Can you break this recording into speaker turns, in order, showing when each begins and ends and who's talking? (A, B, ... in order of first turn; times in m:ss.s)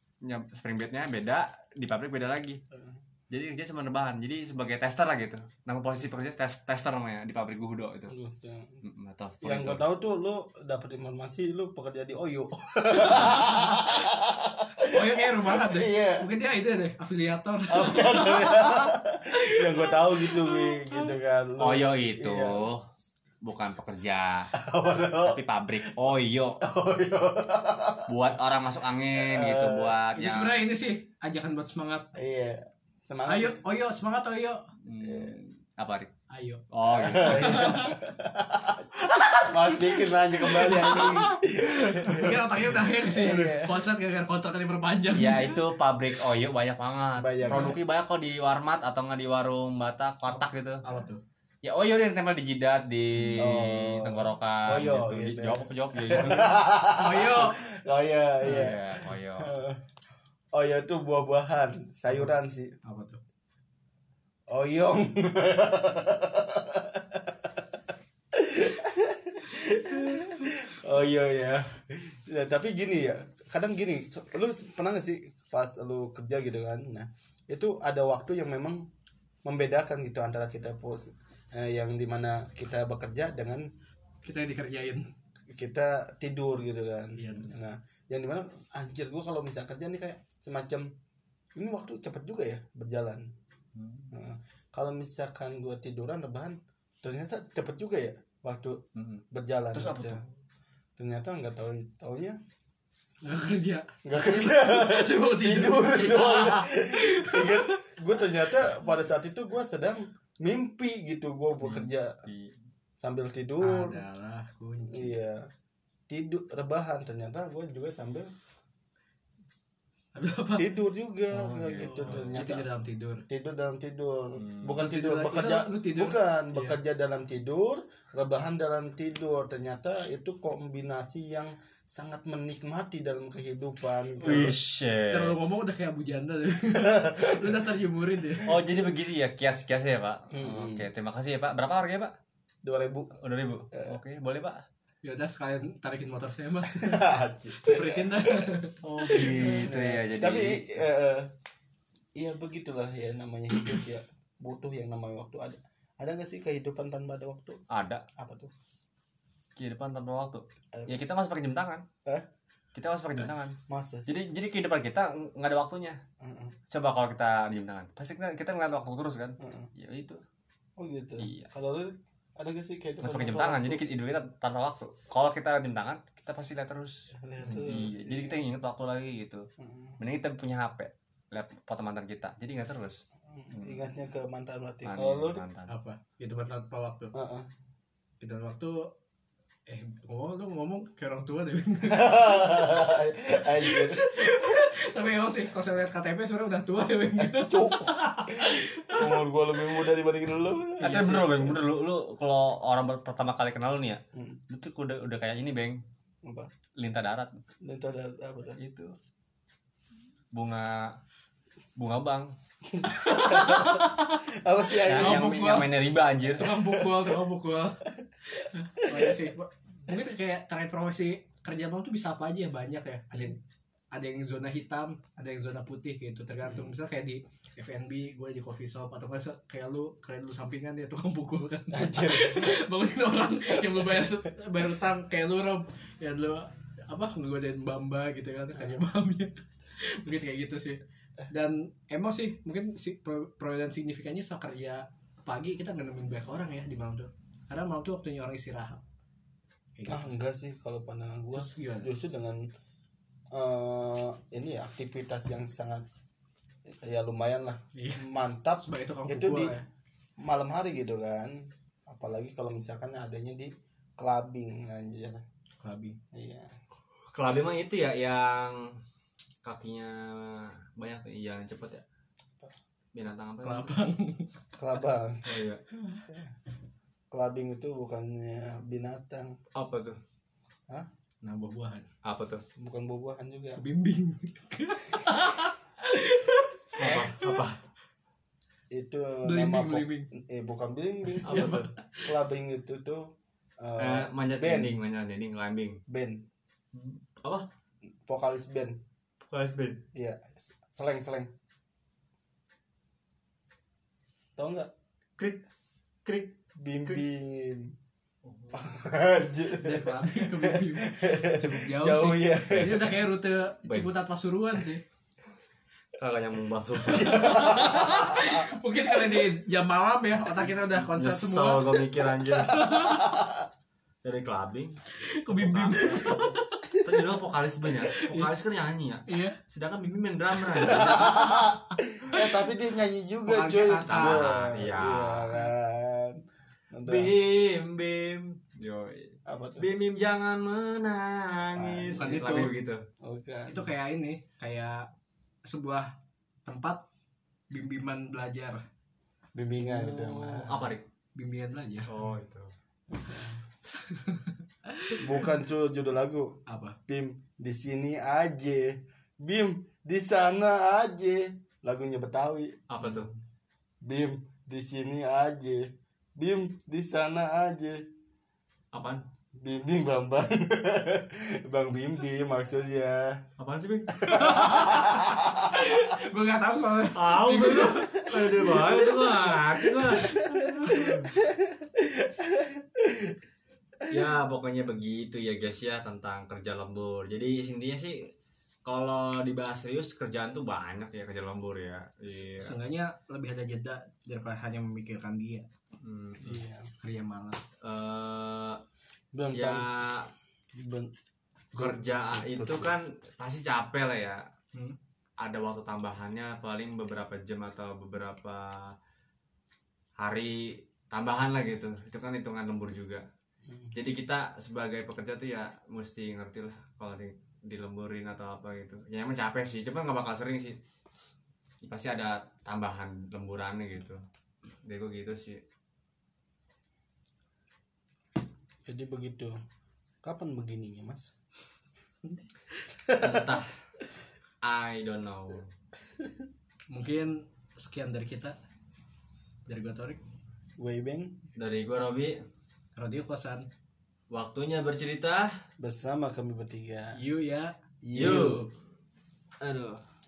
0:00.2-0:02.6 A
0:02.7-0:03.0 B
0:03.3-0:08.1 A
0:08.1-0:08.8 B
0:08.8-0:09.8 A
0:09.4-0:16.2 B
0:13.1-0:13.9 C
0:14.9-0:20.7 C
0:17.7-0:22.6 B
0:21.6-0:22.8 A
0:23.4-0:24.5 A
0:24.5-0:25.4 B
0:25.2-0:26.6 A
0:26.6-0:28.1 B
0:28.1-0:30.6 A
0:29.2-0:30.0 B
0:30.2-0:32.1 C
0:32.1-0:33.6 B
0:33.3-0:34.6 C
0:34.8-0:36.1 A
0:35.0-0:35.4 B
0:36.3-0:36.6 C
0:36.7-0:37.9 A
0:36.9-0:43.8 B
0:37.2-0:37.9 C
0:39.2-0:39.4 C
0:40.4-0:45.6 C
0:45.1-0:50.8 A
0:47.2-0:47.8 B
0:47.5-0:47.7 C
0:50.3-0:51.2 C
0:51.6-0:56.6 A
0:53.4-0:59.8 B
0:56.9-0:57.6 C
0:58.4-0:59.5 A
1:00.5-1:02.7 B
1:02.8-1:03.2 C
1:04.5-1:07.7 B
1:08.3-1:18.9 B
1:19.4-1:23.6 B
1:24.2-1:25.1 C
1:25.5-1:30.9 B
1:27.2-1:27.5 C
1:31.6-1:33.3 B
1:33.8-1:34.1 A
1:34.1-1:40.2 B
1:38.9-1:40.2 A
1:41.0-1:42.4 B
1:43.2-1:47.8 C
1:44.0-1:52.2 B
1:51.6-1:52.5 A
1:53.0-1:54.0 B
1:53.6-1:55.1 C
1:54.8-1:55.5 B
1:56.1-1:58.3 B
2:00.1-2:00.7 C
2:00.6-2:02.6 B
2:01.3-2:02.4 A
2:01.8-2:03.2 C
2:03.3-2:14.6 B
2:04.4-2:04.8 A
2:04.8-2:06.8 C
2:14.2-2:15.4 A
2:15.1-2:18.5 C
2:16.6-2:17.5 B
2:18.4-2:22.1 A
2:20.3-2:20.9 B
2:22.6-2:23.2 B
2:23.2-2:24.6 A
2:23.7-2:24.0 B
2:25.0-2:29.5 C
2:26.7-2:28.5 B
2:28.8-2:30.6 A
2:29.1-2:31.3 B
2:32.2-2:37.6 B
2:37.7-2:38.0 A
2:38.2-2:38.5 B
2:39.6-2:41.8 A
2:42.7-2:46.0 A
2:43.7-2:44.1 B
2:46.2-2:46.6 B
2:46.7-2:50.2 A
2:49.4-2:49.7 B
2:50.8-2:53.8 B
2:51.2-2:51.5 A
2:53.0-2:59.4 A
2:57.1-2:58.4 B
2:59.6-3:00.0 B
3:00.0-3:03.8 A
3:03.3-3:05.4 B
3:04.9-3:05.7 A
3:05.7-3:07.1 C
3:07.1-3:07.5 B
3:08.2-3:08.9 C
3:09.7-3:12.8 C
3:11.8-3:14.4 B
3:13.6-3:19.2 C
3:17.2-3:21.6 B
3:20.8-3:25.8 A
3:24.1-3:24.4 B
3:26.2-3:26.5 B
3:26.8-3:27.4 A
3:27.6-3:28.6 B
3:28.6-3:29.0 A
3:30.3-3:31.0 A
3:31.8-3:32.3 A
3:32.6-3:35.4 B
3:32.9-3:34.0 C
3:34.8-3:36.4 A
3:34.9-3:35.7 C
3:36.3-3:43.4 C
3:36.5-3:37.0 B
3:38.9-3:39.2 B
3:43.9-4:08.8 C
3:51.7-3:52.6 B
3:53.5-3:54.1 B
3:58.6-3:58.8 B
4:09.8-4:10.1 C
4:09.9-4:12.5 B
4:11.3-4:11.9 C
4:13.3-4:15.9 B
4:16.7-4:19.6 B
4:17.7-4:18.0 C
4:18.6-4:19.6 C
4:20.2-4:25.2 B
4:25.6-4:26.0 C
4:26.1-4:26.5 B
4:27.1-4:28.8 A
4:29.4-4:31.8 A
4:32.9-4:33.8 A
4:33.4-4:34.4 C
4:34.6-4:35.2 B
4:35.2-4:35.6 A
4:36.0-4:36.4 B
4:37.1-4:39.4 B
4:39.5-4:40.0 A
4:41.2-4:41.9 C
4:42.0-4:42.4 A
4:42.6-4:43.6 B
4:43.6-4:47.4 C
4:46.8-4:47.6 A
4:46.8-4:47.1 B
4:48.7-4:54.7 B
4:49.2-4:50.1 C
4:51.2-4:51.7 A
4:51.2-4:52.0 C
4:53.8-4:55.8 A
4:55.9-4:56.2 B
4:56.7-4:57.4 A
4:58.0-4:58.8 B
4:59.2-4:59.8 A
4:59.9-5:01.3 B
5:04.4-5:04.7 B
5:06.0-5:07.0 A
5:06.6-5:07.7 B
5:08.2-5:08.7 A
5:08.5-5:13.0 B
5:09.5-5:14.8 C
5:13.7-5:13.9 A
5:16.0-5:18.1 A
5:16.8-5:18.4 B
5:17.0-5:21.8 C
5:20.8-5:22.9 A
5:22.5-5:23.1 C
5:23.1-5:23.4 B
5:24.0-5:24.8 A
5:25.0-5:26.7 C
5:25.3-5:26.3 A
5:26.7-5:27.0 B
5:26.8-5:31.4 A
5:27.9-5:28.3 C
5:29.1-5:29.4 C
5:30.6-5:31.5 C
5:30.7-5:36.2 B
5:33.2-5:34.2 C
5:33.9-5:35.4 A
5:36.7-5:37.1 B
5:36.8-5:42.8 A
5:39.2-5:39.7 B
5:41.5-5:42.5 B
5:42.0-5:42.5 C
5:43.0-5:43.7 B
5:43.5-5:44.9 C
5:45.4-5:45.9 C
5:46.4-5:46.8 C
5:47.5-5:48.6 C
5:49.4-5:50.7 B
5:49.6-5:50.9 A
5:51.2-5:51.9 C
5:51.9-5:52.5 A
5:52.9-5:53.4 B
5:53.7-5:55.0 C
5:55.0-5:56.4 B
5:56.5-5:56.8 C
5:56.9-6:02.6 B
6:02.7-6:03.1 A
6:03.8-6:07.8 B
6:08.7-6:09.0 A
6:09.4-6:13.2 B
6:13.4-6:14.6 A
6:13.9-6:15.5 B
6:14.1-6:14.8 C
6:15.5-6:18.7 C
6:16.9-6:21.1 A
6:20.0-6:23.2 B
6:20.3-6:20.8 C
6:23.9-6:28.1 A
6:28.6-6:32.5 A
6:32.2-6:35.5 C
6:35.8-6:36.4 A
6:36.2-6:36.7 B
6:36.8-6:37.4 C
6:37.6-6:38.6 A
6:39.1-6:39.7 B
6:39.3-6:40.1 A
6:40.5-6:40.9 B
6:41.5-6:42.7 B
6:41.5-6:44.2 A
6:45.2-6:48.7 A
6:50.0-6:53.0 A
6:53.7-7:00.6 A
7:01.6-7:04.0 A
7:04.6-7:05.4 A
7:08.6-7:09.4 B
7:10.0-7:11.1 B
7:12.9-7:13.4 B
7:13.0-7:13.5 A
7:14.4-7:15.5 A
7:16.7-7:18.4 C
7:19.4-7:20.0 C
7:20.6-7:21.2 B
7:21.4-7:22.2 A
7:22.8-7:23.4 C
7:24.1-7:25.3 A
7:25.6-7:27.0 B
7:26.9-7:28.5 C
7:27.8-7:28.4 B
7:28.0-7:28.4 A
7:29.4-7:29.8 A